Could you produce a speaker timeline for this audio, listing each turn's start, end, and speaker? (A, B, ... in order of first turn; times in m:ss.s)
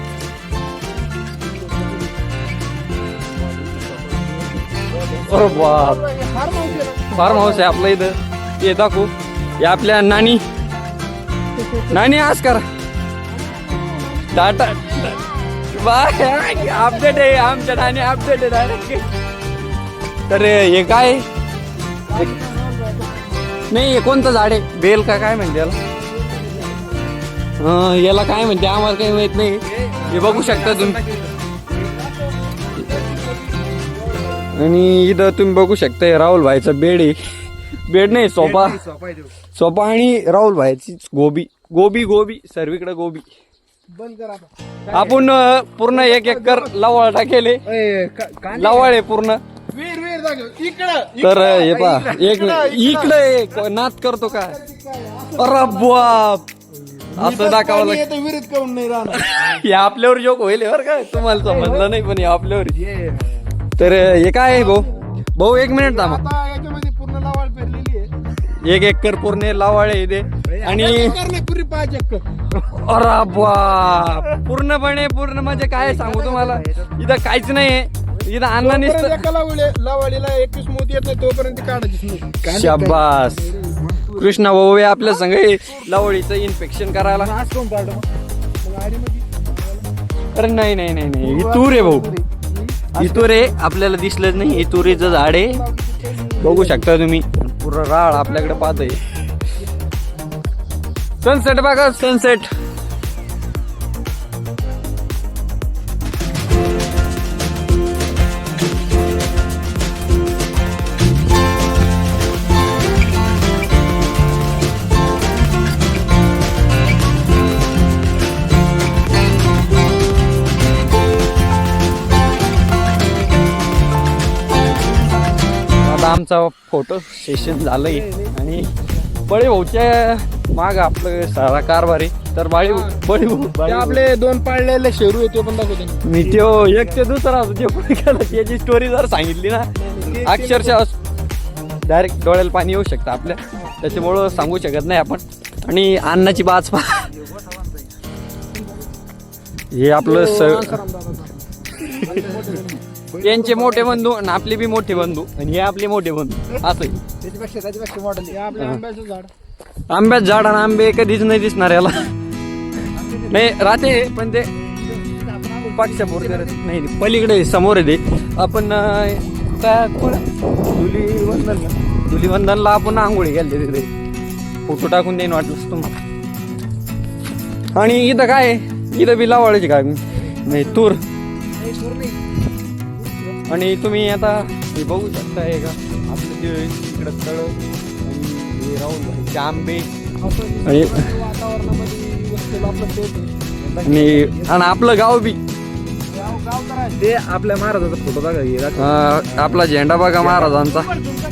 0:01.6-0:02.1 A
0:03.3-0:05.4 B
0:05.0-0:07.8 A
0:05.2-0:06.0 C
0:07.1-0:10.4 C
0:11.8-0:12.6 C
0:13.3-0:15.2 A
0:14.3-0:15.2 C
0:15.7-0:19.0 C
0:16.4-0:18.2 A
0:20.3-0:21.2 C
0:22.1-0:23.5 A
0:23.7-0:25.8 C
0:26.1-0:27.0 A
0:27.6-0:31.0 C
0:29.7-0:31.4 B
0:31.7-0:34.5 A
0:34.5-0:37.2 C
0:37.9-0:38.8 C
0:38.4-0:39.3 B
0:39.5-0:43.2 C
0:43.9-0:45.3 A
0:44.9-0:47.6 C
0:45.9-0:46.8 A
0:47.7-0:48.9 B
0:48.5-0:49.4 C
0:49.7-0:53.2 A
0:51.2-0:54.6 C
0:54.2-0:56.2 A
0:55.4-0:56.4 C
0:57.1-0:59.3 A
0:57.2-0:58.0 C
0:59.1-1:02.8 C
1:01.4-1:01.9 A
1:02.7-1:03.3 B
1:03.8-1:06.2 C
1:04.1-1:05.1 A
1:05.7-1:08.1 A
1:08.6-1:11.2 C
1:10.5-1:10.7 B
1:10.6-1:12.2 A
1:12.6-1:19.2 C
1:15.4-1:17.0 B
1:18.6-1:24.4 A
1:22.4-1:23.5 C
1:24.1-1:27.3 C
1:25.0-1:26.1 A
1:27.1-1:28.0 A
1:28.6-1:29.9 A
1:30.3-1:32.1 C
1:31.2-1:33.5 A
1:32.9-1:35.6 C
1:34.3-1:36.8 A
1:36.4-1:39.0 C
1:38.1-1:38.9 A
1:41.2-1:42.5 C
2:05.8-2:08.7 C
2:07.9-2:08.3 A
2:09.2-2:14.0 C
2:12.6-2:12.9 A
2:13.6-2:16.5 A
2:16.0-2:19.7 C
2:19.8-2:20.8 A
2:20.2-2:21.0 C
2:21.8-2:27.1 C
2:27.3-2:27.8 B
2:29.7-2:30.8 C
2:30.0-2:34.0 B
2:31.8-2:32.2 C
2:32.0-2:32.8 A
2:33.2-2:37.0 C
2:37.2-2:38.4 B
2:38.3-2:39.3 A
2:39.9-2:42.1 C
2:43.0-2:43.5 B
2:43.3-2:44.5 C
2:44.8-2:46.6 B
2:45.7-2:53.9 C
2:54.6-2:55.9 C
2:57.8-3:01.0 C
3:01.6-3:02.2 B
3:03.0-3:03.4 B
3:03.5-3:09.9 C
3:10.2-3:13.3 A
3:10.6-3:11.0 C
3:13.6-3:14.5 B
3:13.8-3:15.4 C
3:16.1-3:17.0 A
3:16.9-3:19.6 B
3:18.7-3:20.9 C
3:20.2-3:20.8 B